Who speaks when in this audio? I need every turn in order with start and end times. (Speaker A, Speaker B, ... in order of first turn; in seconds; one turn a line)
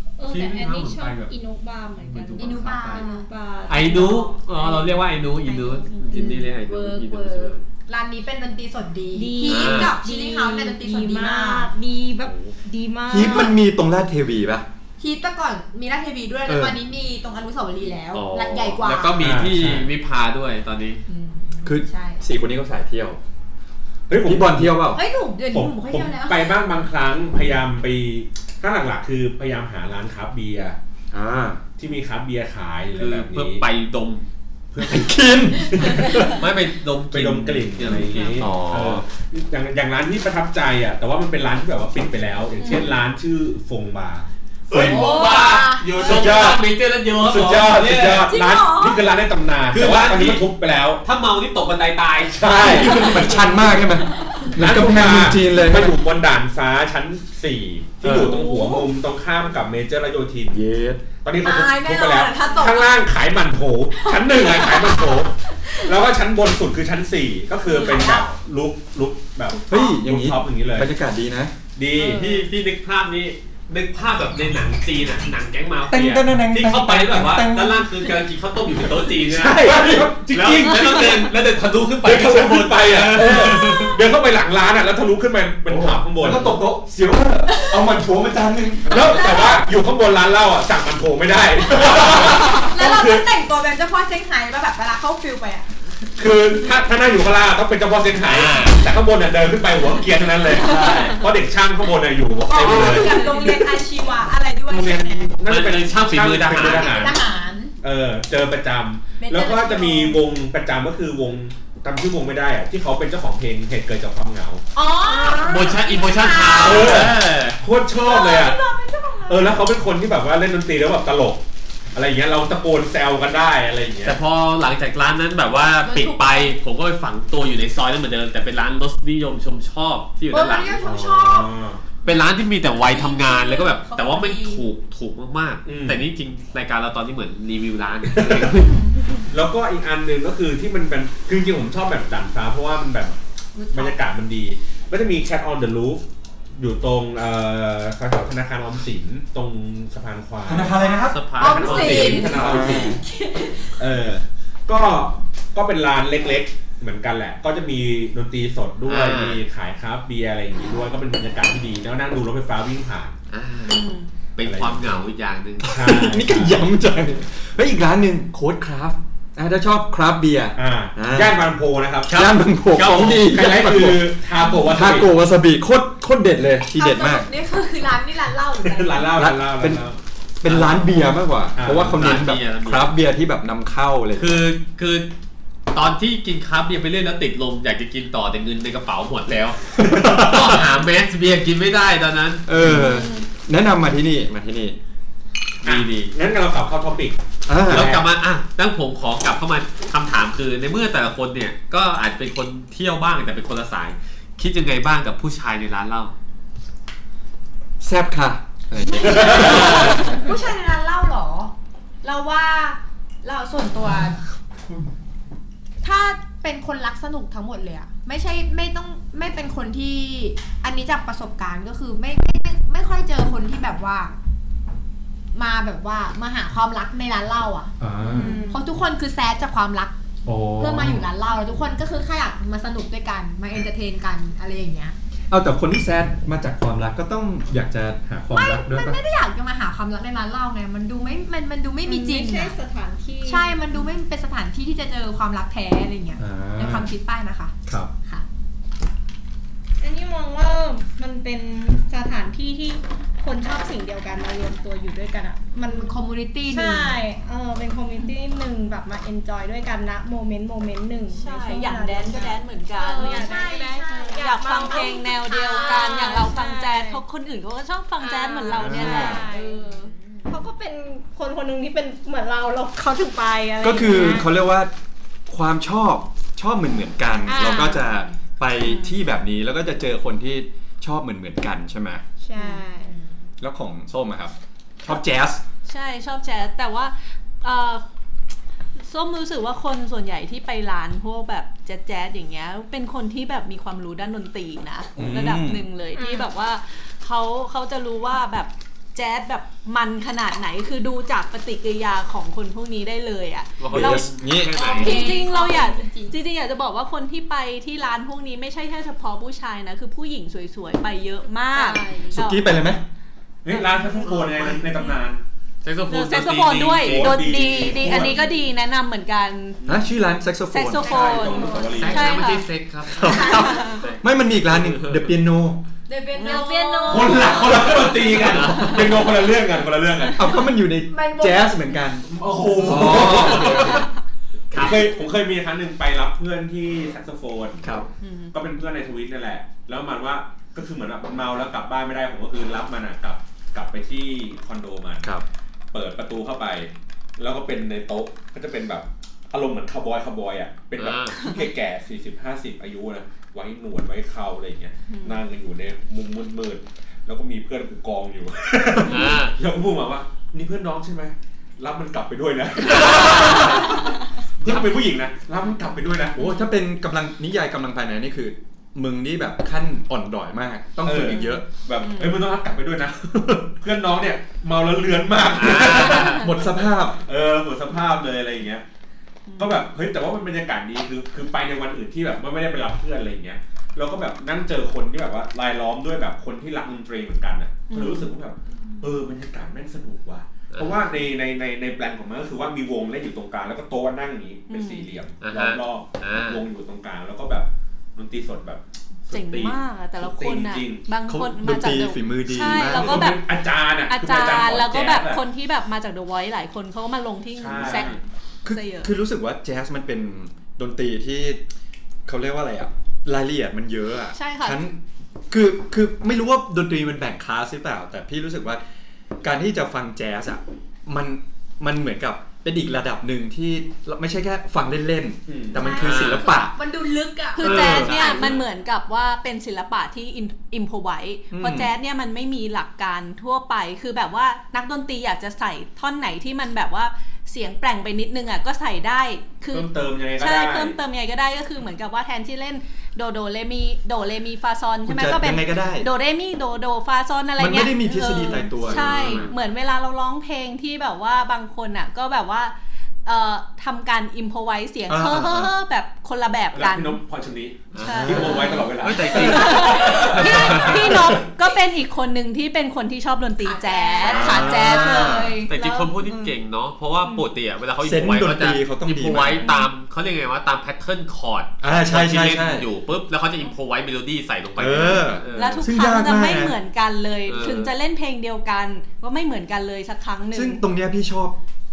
Speaker A: 0.2-7.0
Speaker B: 0.3-1.3
Speaker B: 2.0-3.0
Speaker C: 2.4-3.3
Speaker B: 3.7-7.6
Speaker C: 6.1-11.7
Speaker A: 9.1-13.6
Speaker B: 9.4-10.0
Speaker B: 12.3-12.5
Speaker D: 13.1-14.7
Speaker C: 13.2-13.4
Speaker C: 15.0-19.3
Speaker D: 16.5-16.8
Speaker B: 18.1-21.0
Speaker E: 19.2-19.9
Speaker C: 21.1-22.2
Speaker D: 21.6-23.2
Speaker E: 24.1-24.9
Speaker D: 24.2-25.0
Speaker C: 24.9-26.6
Speaker E: 25.5-30.8
Speaker D: 31.1-31.6
Speaker E: 31.8-33.6
Speaker B: 33.0-34.2
Speaker E: 34.7-35.2
Speaker D: 34.8-36.5
Speaker B: 36.3-39.0
Speaker E: 37.1-45.4
Speaker D: 38.4-38.8
Speaker B: 44.7-48.3
Speaker C: 44.9-46.2
Speaker E: 46.0-46.6
Speaker D: 46.0-46.5
Speaker E: 47.2-51.0
Speaker D: 47.3-47.7
Speaker C: 48.3-49.1
Speaker B: 49.7-50.5
Speaker B: 51.0-53.4
Speaker E: 52.3-53.4
Speaker D: 52.6-56.0
Speaker E: 54.5-60.6
Speaker D: 58.0-58.3
Speaker D: 60.5-61.1
Speaker E: 61.2-65.3
Speaker C: 61.4-63.1
Speaker C: 63.9-65.9
Speaker E: 65.8-70.9
Speaker C: 67.7-68.3
Speaker D: 69.7-71.5
Speaker E: 71.8-72.4
Speaker B: 72.0-84.0
Speaker D: 75.9-78.1
Speaker E: 79.2-81.3
Speaker D: 79.6-80.8
Speaker E: 82.0-86.6
Speaker D: 83.2-83.7
Speaker D: 85.7-89.2
Speaker C: 87.5-87.8
Speaker E: 88.9-93.2
Speaker C: 88.9-89.6
Speaker C: 91.8-95.7
Speaker E: 96.2-103.7
Speaker B: 98.2-98.9
Speaker D: 100.7-101.0
Speaker C: 102.5-105.3
Speaker E: 104.7-107.2
Speaker B: 105.5-107.2
Speaker C: 106.5-107.8
Speaker E: 107.8-114.6
Speaker C: 109.2-110.2
Speaker C: 114.8-117.1
Speaker A: 115.0-115.8
Speaker B: 115.5-117.6
Speaker E: 116.6-118.6
Speaker C: 117.9-119.6
Speaker E: 119.3-121.4
Speaker E: 121.9-124.2
Speaker B: 124.0-131.3
Speaker C: 125.8-126.5
Speaker C: 130.3-131.5
Speaker E: 130.8-131.8
Speaker C: 132.1-134.6
Speaker B: 132.1-138.8
Speaker E: 135.7-136.1
Speaker E: 138.1-138.7
Speaker E: 139.3-143.2
Speaker C: 143.5-144.0
Speaker E: 143.7-146.0
Speaker E: 146.6-150.8
Speaker D: 150.4-151.2
Speaker C: 150.7-153.8
Speaker B: 151.1-152.4
Speaker E: 151.4-153.0
Speaker D: 152.2-153.0
Speaker E: 153.8-163.2
Speaker B: 158.9-159.4
Speaker B: 163.3-165.8
Speaker F: 163.7-164.1
Speaker E: 164.4-165.0
Speaker E: 165.6-166.7
Speaker D: 165.6-171.4
Speaker E: 170.6-172.2
Speaker D: 172.1-177.3
Speaker B: 172.1-173.1
Speaker E: 172.8-175.1
Speaker C: 176.8-179.2
Speaker E: 178.6-180.0
Speaker D: 179.2-179.9
Speaker D: 180.4-184.4
Speaker B: 180.5-181.1
Speaker E: 181.6-182.1
Speaker B: 181.8-182.9
Speaker B: 184.2-185.1
Speaker B: 185.7-192.7
Speaker D: 189.8-190.7
Speaker D: 192.5-194.8
Speaker F: 192.8-193.1
Speaker B: 195.6-196.1
Speaker E: 195.6-198.1
Speaker D: 197.5-198.0
Speaker B: 197.7-206.2
Speaker D: 207.8-210.2
Speaker C: 208.9-214.2
Speaker B: 209.4-209.9
Speaker C: 215.8-224.2
Speaker C: 225.3-227.7
Speaker D: 227.8-228.4
Speaker E: 227.8-228.3
Speaker F: 228.2-228.6
Speaker C: 228.4-230.0
Speaker D: 230.3-231.1
Speaker C: 230.6-234.9
Speaker D: 235.3-239.0
Speaker C: 238.3-242.6
Speaker A: 241.8-243.6
Speaker C: 243.2-248.2
Speaker D: 246.2-246.9
Speaker A: 249.8-255.9
Speaker C: 255.6-257.0
Speaker A: 256.5-267.0
Speaker F: 261.1-263.5
Speaker C: 262.9-266.0
Speaker F: 264.1-269.9
Speaker A: 268.0-274.3
Speaker D: 268.5-269.3
Speaker C: 270.0-270.3
Speaker D: 273.6-274.7
Speaker D: 275.3-282.0
Speaker A: 277.3-277.9
Speaker F: 278.6-278.9
Speaker A: 282.2-282.9
Speaker F: 282.4-282.6
Speaker C: 282.8-283.1
Speaker D: 283.4-285.4
Speaker F: 285.7-287.8
Speaker F: 288.8-304.1
Speaker D: 295.0-295.7
Speaker A: 295.9-296.3
Speaker B: 303.6-305.1
Speaker D: 303.7-304.6
Speaker C: 304.6-306.2
Speaker F: 304.6-312.6
Speaker C: 311.6-312.1
Speaker A: 311.7-312.1
Speaker D: 312.1-312.8
Speaker E: 313.4-315.2
Speaker B: 315.6-317.2
Speaker F: 315.9-319.6
Speaker E: 316.7-318.3
Speaker E: 319.6-319.9
Speaker D: 319.7-321.1
Speaker F: 320.5-322.5
Speaker E: 320.8-322.2
Speaker C: 320.9-322.0
Speaker B: 321.7-325.1
Speaker D: 322.9-325.6
Speaker C: 323.0-323.8
Speaker F: 323.3-323.8
Speaker C: 325.9-328.2
Speaker F: 326.1-327.5
Speaker E: 326.9-330.3
Speaker B: 328.2-328.9
Speaker D: 330.1-333.9
Speaker C: 330.7-331.8
Speaker E: 332.0-333.9
Speaker B: 333.0-333.7
Speaker B: 334.5-334.9
Speaker E: 334.5-337.7
Speaker D: 337.6-337.9
Speaker F: 338.0-338.3
Speaker E: 338.3-345.1
Speaker E: 345.7-366.2
Speaker B: 350.8-351.2
Speaker F: 354.9-355.2
Speaker B: 358.9-359.4
Speaker B: 362.8-363.6
Speaker D: 366.2-371.5
Speaker E: 370.8-376.2
Speaker F: 371.1-372.2
Speaker B: 375.3-376.3
Speaker F: 375.9-376.2
Speaker D: 375.9-377.0
Speaker E: 377.0-378.6
Speaker F: 379.3-379.6
Speaker E: 379.4-400.9
Speaker F: 387.7-388.1
Speaker B: 390.5-390.9
Speaker F: 394.5-394.9
Speaker B: 395.2-396.5
Speaker F: 399.1-403.2
Speaker D: 401.1-403.2
Speaker E: 402.4-405.2
Speaker F: 403.9-408.9
Speaker E: 407.4-408.0
Speaker D: 407.6-411.4
Speaker D: 412.1-418.6
Speaker F: 414.1-414.6
Speaker D: 419.2-426.6
Speaker E: 425.3-425.8
Speaker C: 425.5-428.4
Speaker B: 425.8-426.3
Speaker F: 427.4-452.5
Speaker B: 427.4-428.4
Speaker D: 427.4-428.3
Speaker D: 431.3-431.7
Speaker E: 439.5-440.8
Speaker D: 444.9-445.9
Speaker D: 447.4-449.3
Speaker B: 448.7-449.3
Speaker F: 453.1-457.0
Speaker D: 454.9-455.5
Speaker E: 456.5-461.2
Speaker B: 457.7-461.1
Speaker F: 457.8-466.4
Speaker D: 457.9-458.5
Speaker C: 463.4-465.3
Speaker D: 464.0-465.4
Speaker B: 464.1-464.7
Speaker B: 465.5-475.7
Speaker D: 467.8-469.5
Speaker F: 469.4-469.7
Speaker D: 471.6-472.7
Speaker D: 474.6-476.6
Speaker F: 475.3-480.6
Speaker B: 477.3-477.7
Speaker D: 480.3-481.4